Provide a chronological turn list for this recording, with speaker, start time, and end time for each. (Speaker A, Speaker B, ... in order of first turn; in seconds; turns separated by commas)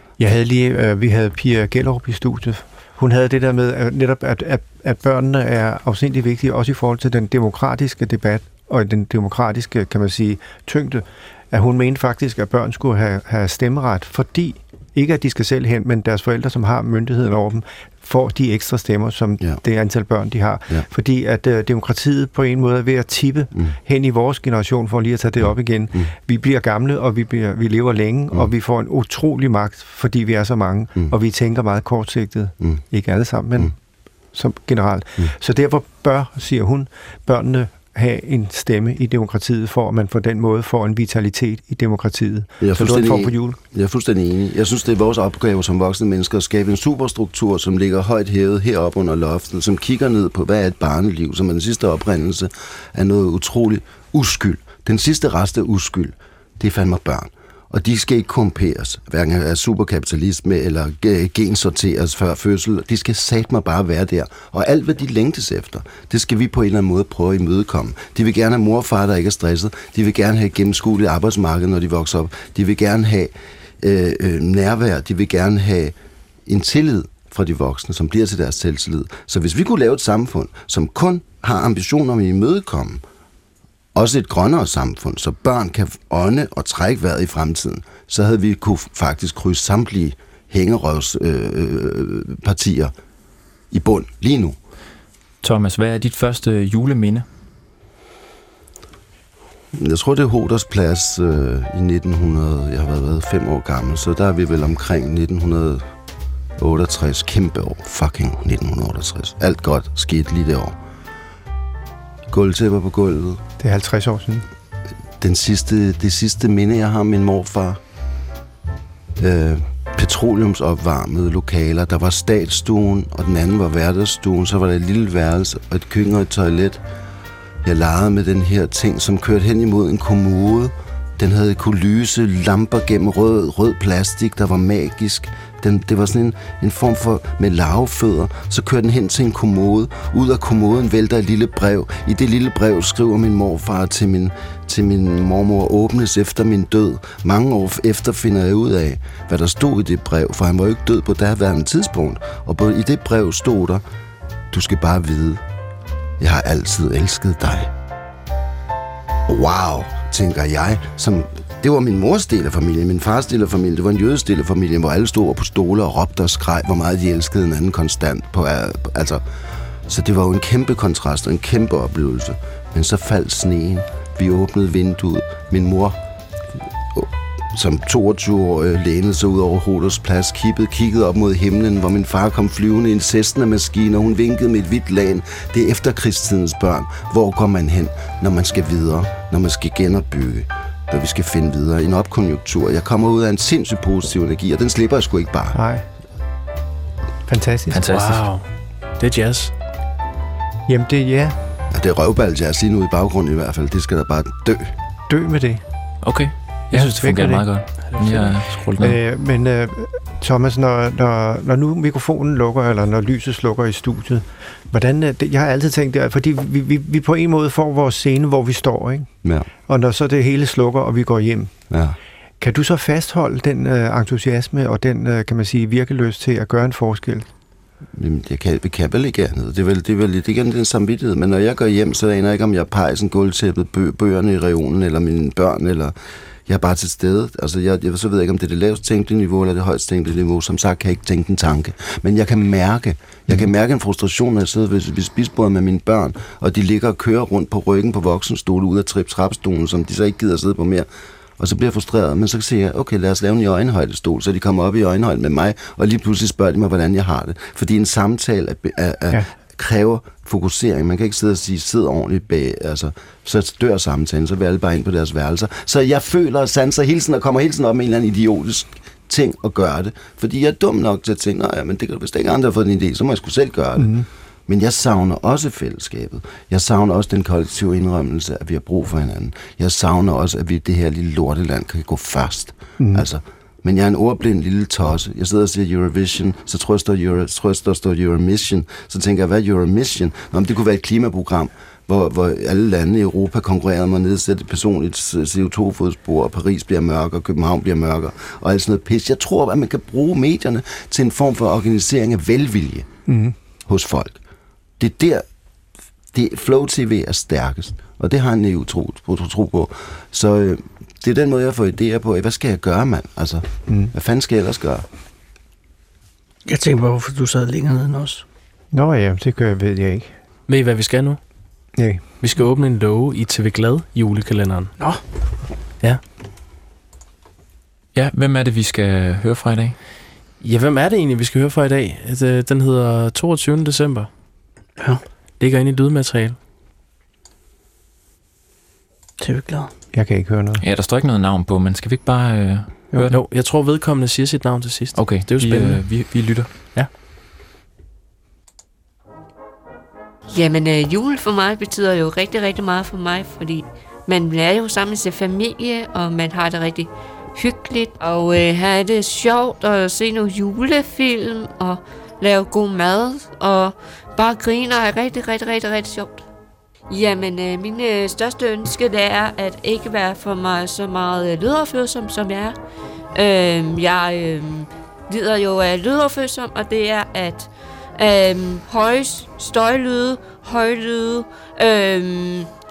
Speaker A: 0.2-33.8, Speaker A: 34.3-43.6, Speaker B: 42.6-76.0, Speaker B: 76.5-83.0, Speaker B: 84.0-92.9, Speaker B: 93.7-94.6, Speaker C: 95.4-97.3, Speaker B: 99.8-105.8, Speaker B: 106.6-110.8, Speaker B: 112.3-113.4, Speaker A: 113.6-114.5, Speaker B: 115.2-117.8, Speaker B: 119.2-126.8, Speaker B: 127.6-153.8, Speaker B: 154.5-155.4, Speaker B: 156.2-157.7, Speaker B: 159.3-169.2, Speaker B: 169.9-176.0, Speaker B: 176.9-195.6, Speaker A: 195.5-195.8, Speaker A: 197.3-197.8, Speaker C: 197.7-198.2, Speaker D: 197.9-198.4, Speaker D: 199.0-199.5, Speaker A: 200.7-201.4, Speaker B: 201.7-204.7, Speaker A: 205.1-205.6, Speaker C: 206.0-209.0, Speaker A: 206.7-207.5, Speaker D: 207.9-208.4, Speaker A: 208.8-219.1, Speaker A: 219.7-221.5, Speaker B: 221.7-222.0, Speaker A: 222.4-227.3, Speaker B: 227.9-235.9, Speaker B: 236.5-250.9, Speaker B: 251.4-274.0, Speaker A: 273.8-274.1, Speaker B: 274.5-302.9, Speaker A: 282.8-283.1, Speaker A: 303.1-303.4, Speaker B: 303.7-304.2, Speaker B: 304.8-305.2, Speaker B: 306.1-314.9, Speaker E: 316.5-318.2, Speaker A: 318.7-320.1, Speaker D: 320.5-321.2, Speaker A: 321.8-322.0, Speaker D: 322.2-324.7, Speaker C: 327.9-329.8, Speaker D: 330.4-334.1, Speaker D: 335.4-336.4, Speaker E: 339.2-339.7, Speaker A: 339.9-340.6, Speaker C: 340.6-343.2, Speaker D: 343.1-346.0, Speaker C: 344.9-346.5, Speaker F: 350.3-366.2, Speaker F: 366.9-372.6, Speaker F: 373.1-382.5